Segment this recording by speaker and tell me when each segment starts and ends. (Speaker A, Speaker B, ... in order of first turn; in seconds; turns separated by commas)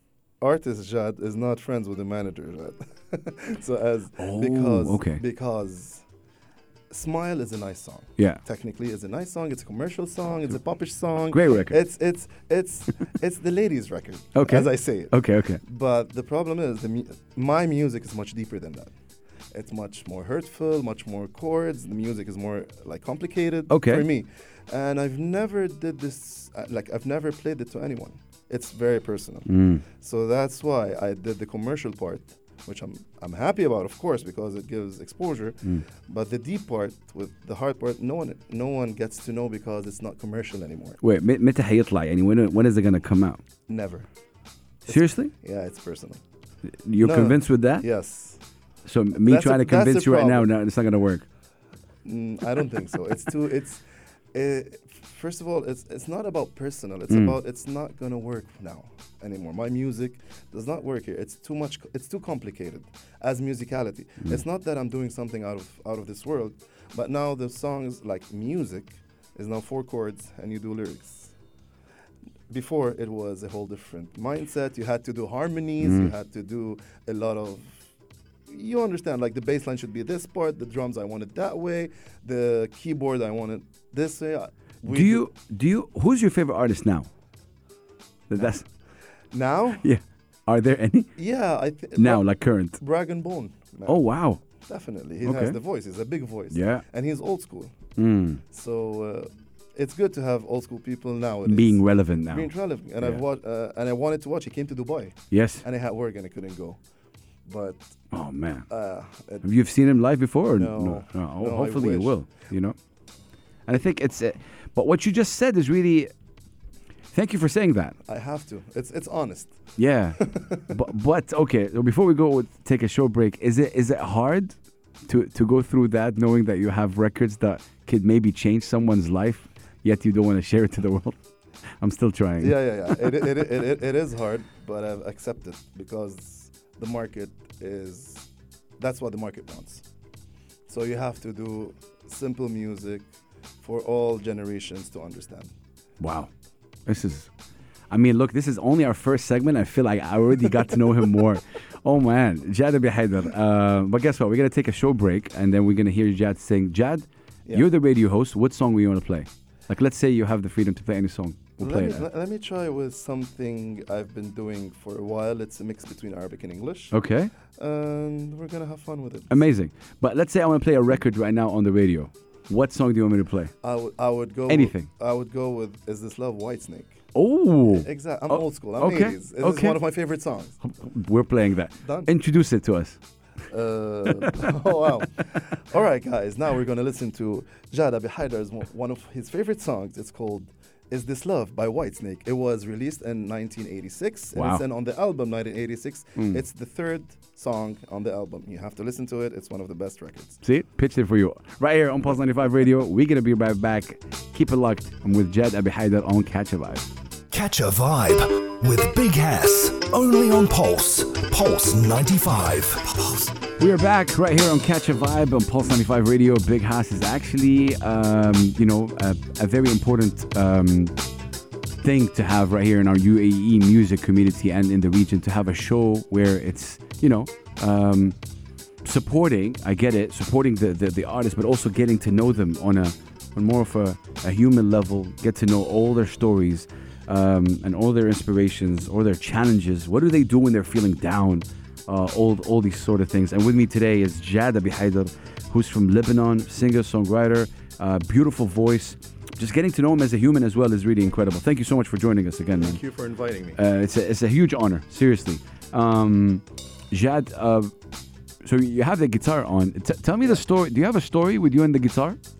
Speaker A: 0.4-6.0, Speaker B: 4.2-5.2, Speaker A: 6.9-18.9, Speaker B: 11.3-11.8, Speaker B: 14.3-15.6, Speaker A: 19.5-41.0, Speaker B: 23.7-24.1, Speaker B: 29.5-29.8, Speaker B: 41.0-43.4, Speaker A: 43.7-44.0, Speaker A: 44.9-46.2, Speaker B: 44.9-45.3, Speaker B: 46.8-47.8, Speaker A: 47.0-48.4, Speaker B: 48.9-51.2, Speaker A: 49.2-50.5, Speaker A: 52.0-53.8, Speaker A: 54.3-71.3, Speaker B: 57.1-57.4, Speaker A: 72.5-77.8, Speaker B: 75.8-76.1, Speaker A: 78.5-85.2, Speaker B: 84.8-87.1, Speaker B: 88.3-88.6, Speaker A: 89.3-89.8, Speaker B: 89.8-91.1, Speaker A: 91.2-92.2, Speaker B: 92.0-92.8, Speaker A: 92.8-94.0, Speaker B: 93.9-94.4, Speaker A: 94.6-97.7, Speaker B: 95.2-95.6, Speaker B: 96.5-96.8, Speaker B: 98.0-98.4, Speaker A: 98.5-106.8, Speaker B: 101.4-102.5, Speaker B: 105.3-105.6, Speaker A: 107.5-107.8, Speaker B: 108.1-108.7, Speaker A: 108.7-109.4, Speaker B: 109.4-112.8, Speaker A: 110.6-112.2, Speaker B: 113.7-116.1, Speaker B: 117.1-118.0, Speaker A: 118.1-119.6, Speaker B: 119.8-131.2, Speaker A: 120.2-120.7, Speaker B: 131.8-133.1, Speaker A: 132.4-138.3, Speaker A: 138.8-139.8, Speaker A: 140.7-143.1, Speaker A: 143.6-145.5, Speaker B: 146.0-146.3, Speaker B: 146.9-147.3, Speaker B: 147.9-162.1, Speaker A: 161.6-166.9, Speaker B: 166.9-167.3, Speaker A: 167.5-169.4, Speaker B: 169.3-173.5, Speaker A: 173.6-177.0, Speaker B: 174.5-174.9, Speaker B: 177.1-179.8, Speaker A: 177.7-180.6, Speaker B: 180.6-183.0, Speaker A: 181.8-182.1, Speaker A: 183.5-200.4, Speaker B: 194.3-194.6, Speaker B: 196.2-196.4, Speaker B: 200.4-206.9, Speaker C: 207.3-213.3, Speaker B: 213.6-220.9, Speaker B: 221.8-228.2, Speaker B: 228.8-252.8, Speaker A: 252.6-253.6, Speaker B: 253.6-257.7, Speaker B: 258.4-262.2